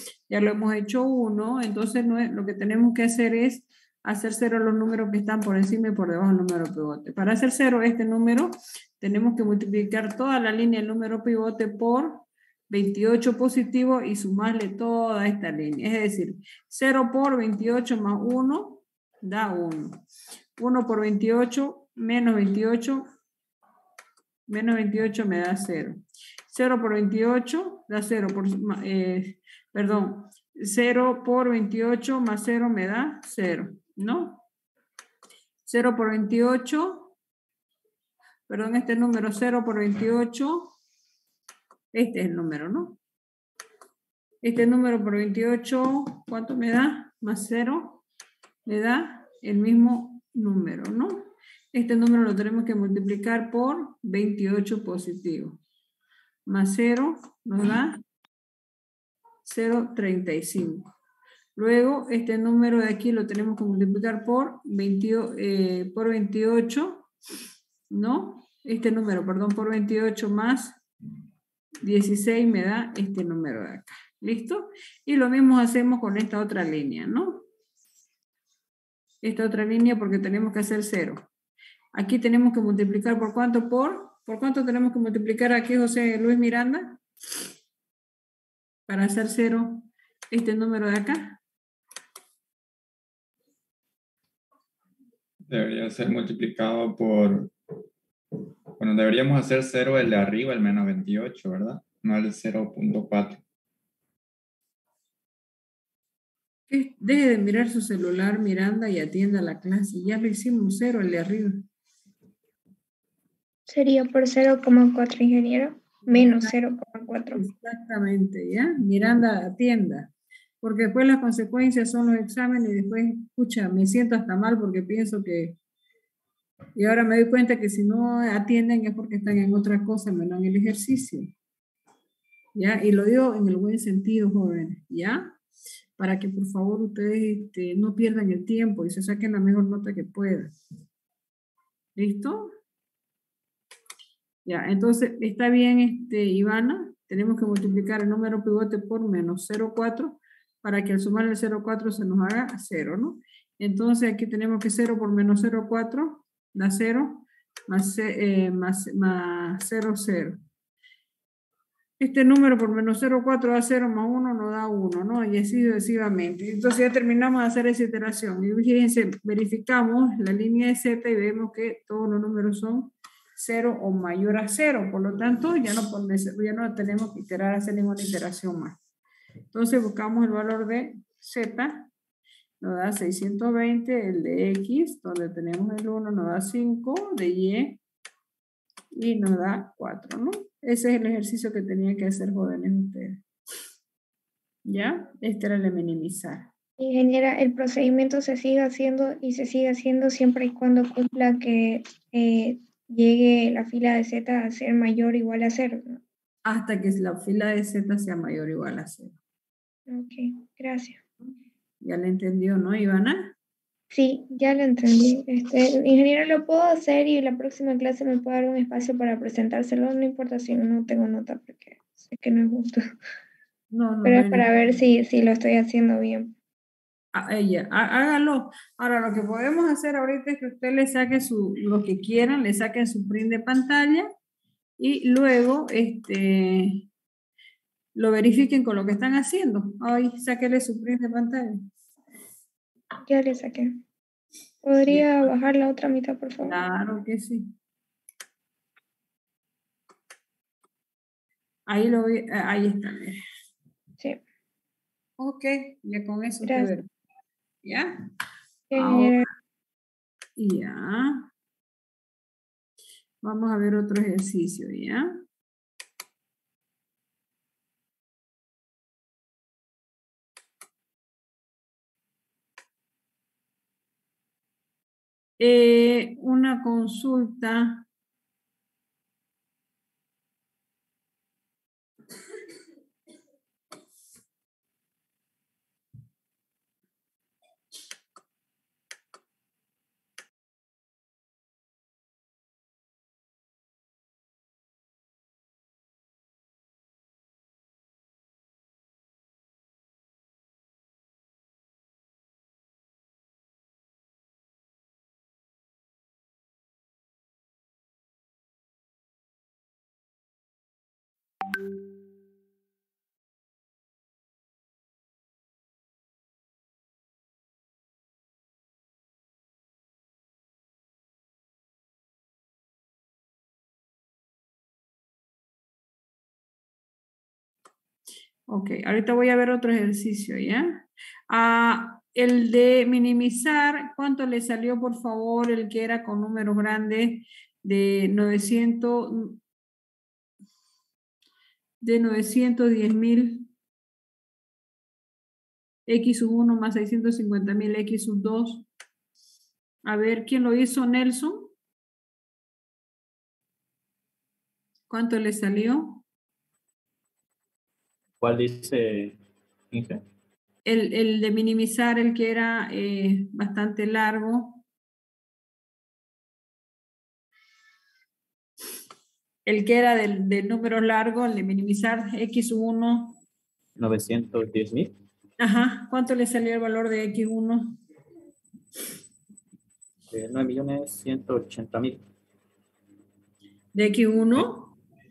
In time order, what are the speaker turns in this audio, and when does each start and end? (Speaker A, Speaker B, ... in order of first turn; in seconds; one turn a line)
Speaker A: 0.3-20.0
Speaker A: 20.6-23.1
Speaker A: 24.5-34.4
Speaker A: 35.6-37.1
Speaker A: 38.5-40.8
Speaker A: 41.9-43.0
Speaker A: 44.4-48.0
Speaker A: 48.7-55.6
Speaker A: 56.5-58.0
Speaker A: 59.5-60.9
Speaker A: 61.6-67.1
Speaker A: 67.9-70.8
Speaker A: 71.8-77.5
Speaker A: 79.2-81.2
Speaker A: 81.9-87.0
Speaker A: 88.9-91.4
Speaker B: 95.5-97.5
Speaker B: 98.8-103.4
Speaker A: 106.7-111.7
Speaker C: 113.7-117.5
Speaker A: 116.1-116.5
Speaker A: 117.3-120.1
Speaker A: 120.6-125.6
Speaker A: 126.8-131.3
Speaker A: 132.6-135.4
Speaker A: 136.0-140.5
Speaker A: 142.0-142.5
Speaker A: 144.4-160.4
Speaker A: 162.0-178.8
Speaker A: 179.5-181.9
Speaker A: 182.6-187.8
Speaker A: 188.9-193.2
Speaker A: 194.7-196.5
Speaker C: 196.8-206.0
Speaker A: 206.4-209.2
Speaker C: 209.9-211.0
Speaker A: 211.8-213.3
Speaker C: 213.9-222.8
Speaker A: 223.7-224.5
Speaker C: 224.1-226.3
Speaker A: 227.1-234.1
Speaker A: 234.8-236.9
Speaker A: 238.0-241.7
Speaker C: 243.1-243.7
Speaker C: 244.6-246.6
Speaker A: 246.4-247.5
Speaker A: 251.7-253.2
Speaker A: 255.2-256.9
Speaker C: 256.4-256.7
Speaker A: 257.6-257.9
Speaker C: 258.7-259.3
Speaker A: 258.8-259.2
Speaker A: 260.4-261.3
Speaker A: 263.2-265.2
Speaker A: 275.4-277.9
Speaker A: 328.5-339.4
Speaker A: 341.8-343.5
Speaker A: 345.9-348.7
Speaker A: 349.9-351.5
Speaker A: 354.9-356.0
Speaker D: 358.2-359.2
Speaker D: 359.7-360.0
Speaker A: 360.7-364.6
Speaker A: 369.5-373.2
Speaker D: 373.8-375.0
Speaker A: 375.4-377.8
Speaker D: 380.1-382.0
Speaker A: 383.8-384.7